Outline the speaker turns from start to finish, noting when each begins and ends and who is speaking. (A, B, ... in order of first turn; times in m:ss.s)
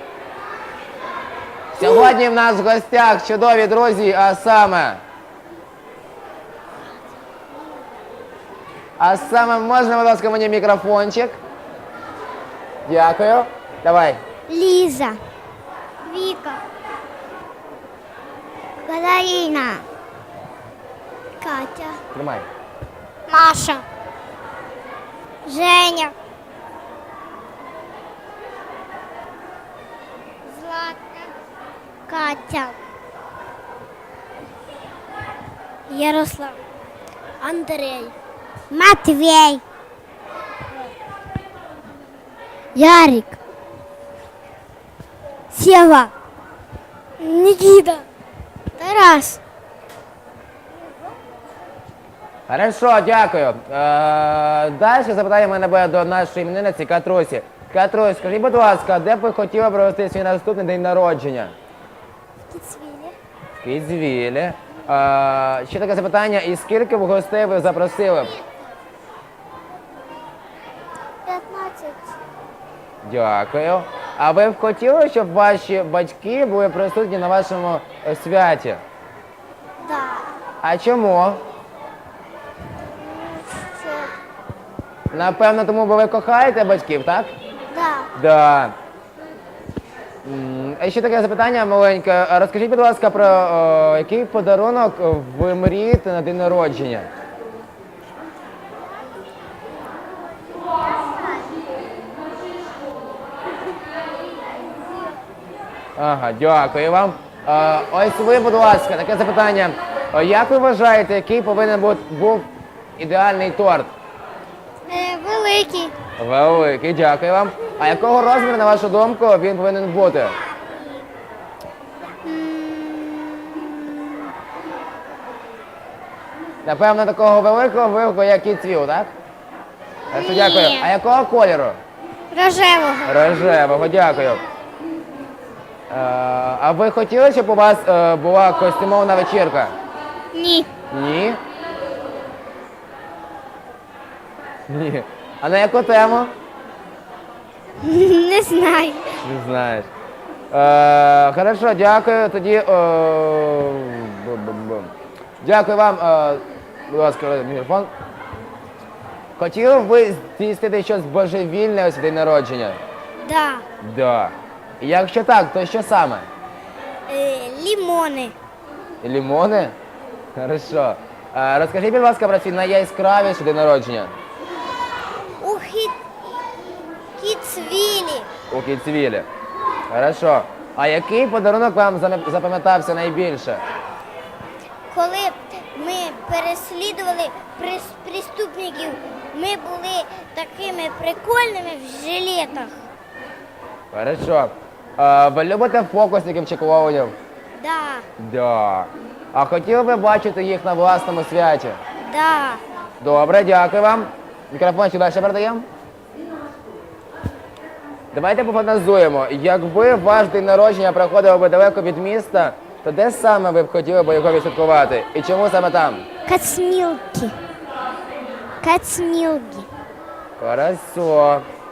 0:01.8-0:05.0 A
0:01.8-0:02.1 B
0:09.0-0:11.4 A
0:12.9-0:14.2 A
0:14.5-0:15.2 B
0:16.0-0:16.6 B
0:18.8-0:19.9 B
0:21.4-0:22.0 B
0:22.1-0:22.5 A
0:23.3-0:23.8 B
0:25.5-0:26.2 B
0:30.4-0:31.3 B
0:32.1-0:32.8 B
0:35.9-0:36.6 B
0:37.4-0:38.2 B
0:38.7-0:39.6 B
0:42.8-0:43.4 B
0:45.5-0:46.1 B
0:47.2-0:48.1 B
0:48.8-0:49.4 B
0:52.5-1:01.5 A
1:02.5-1:03.2 B
1:03.6-1:08.4 A
1:11.3-1:12.2 B
1:13.0-1:18.8 A
1:19.8-1:20.3 B
1:20.6-1:21.4 A
1:23.0-1:24.1 B
1:25.1-1:27.3 A
1:27.7-1:28.1 B
1:28.2-1:28.8 A
1:30.2-1:37.1 A
1:46.0-1:53.9 A
1:54.9-1:55.9 B
1:56.2-2:00.4 A
2:02.2-2:04.3 B
2:06.6-2:09.1 A
2:10.1-2:10.9 B
2:10.1-2:11.8 A
2:12.3-2:13.2 B
2:13.1-2:14.4 A
2:15.9-2:19.7 A
2:20.3-2:20.7 B
2:20.9-2:21.4 A
2:24.7-2:26.3 A
2:27.8-2:29.2 B
2:29.2-2:29.9 A
2:30.5-2:37.9 A
2:39.4-2:42.8 A
2:43.2-2:43.6 B
2:43.8-2:46.3 A
2:47.1-2:48.4 B
2:49.0-2:49.8 A
2:50.4-2:54.1 A
2:55.4-2:56.0 B
2:57.2-2:58.3 B
2:58.5-2:59.3 A
2:59.9-3:03.6 A
3:04.9-3:12.8 B
3:13.9-3:17.2 A
3:17.6-3:18.1 B
3:18.2-3:21.8 A
3:22.0-3:22.6 B
3:23.0-3:25.7 A
3:28.1-3:36.0 A
3:36.3-3:37.4 B
3:38.6-3:39.7 B
3:40.4-3:41.4 A